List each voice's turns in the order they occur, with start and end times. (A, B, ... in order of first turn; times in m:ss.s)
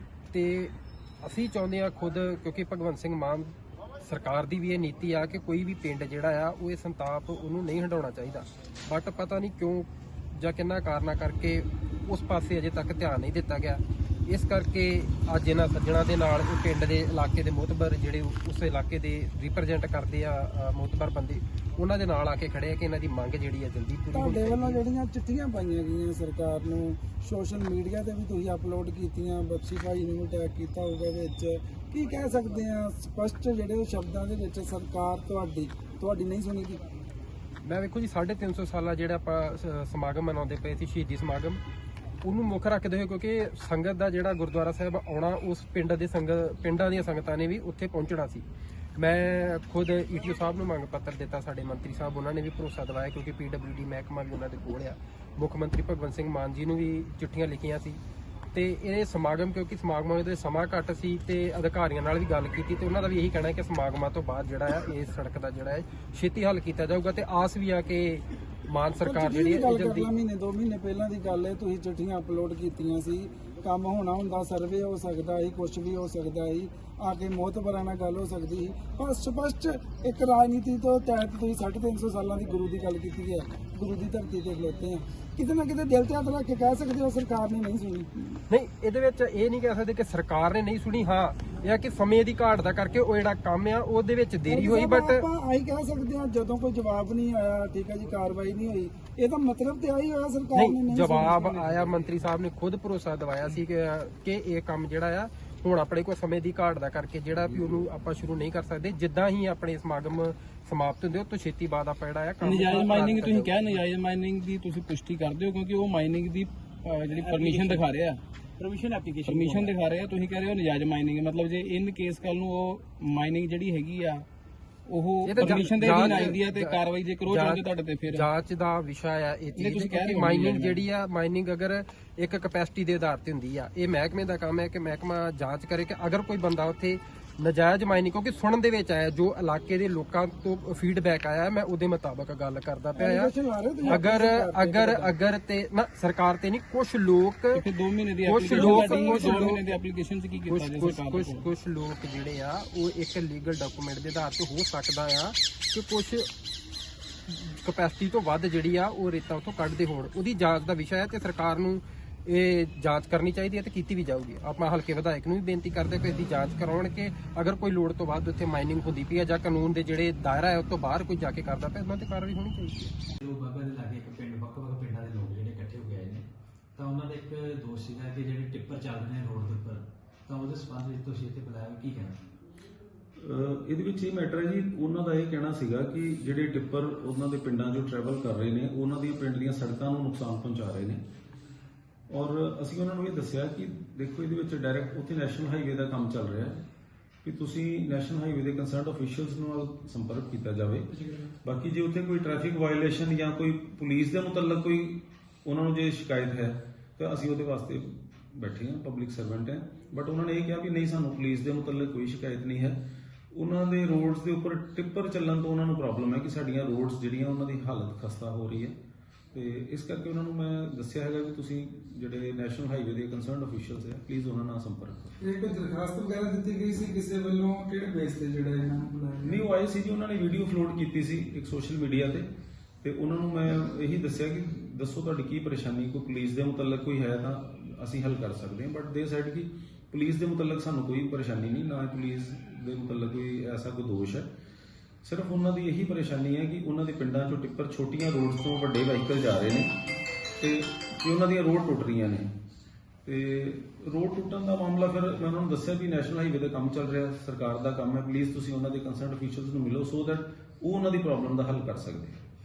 0:00.3-0:24.8 A
0:24.1-0:36.8 B
0:37.6-0:41.6 A
0:42.2-0:48.4 A
0:49.0-0:58.0 A
0:58.5-1:10.1 A
1:09.0-1:28.3 B
1:28.5-1:35.2 A
1:34.4-1:41.9 B
1:40.5-1:53.8 A
1:52.4-1:58.2 C
1:57.2-1:57.9 D
1:58.6-1:59.8 D
1:59.2-2:04.2 C
2:04.9-2:08.3 C
2:05.2-2:23.3 A
2:05.6-2:06.4 D
2:09.5-2:10.8 C
2:22.9-2:25.2 B
2:23.8-2:27.6 A
2:27.5-2:31.5 C
2:28.2-2:29.6 A
2:30.4-2:36.3 A
2:37.3-2:52.9 A
2:53.2-2:56.2 D
2:56.8-3:02.2 D
3:03.2-3:11.0 E
3:12.1-3:16.7 E
3:17.2-3:20.9 E
3:21.4-3:32.8 E
3:33.3-3:38.8 E
3:39.3-3:45.2 E
3:45.2-3:49.5 B
3:49.2-3:52.3 E
3:52.8-4:04.3 E
4:05.0-4:09.7 E
4:10.4-4:12.3 E
4:13.0-4:22.2 E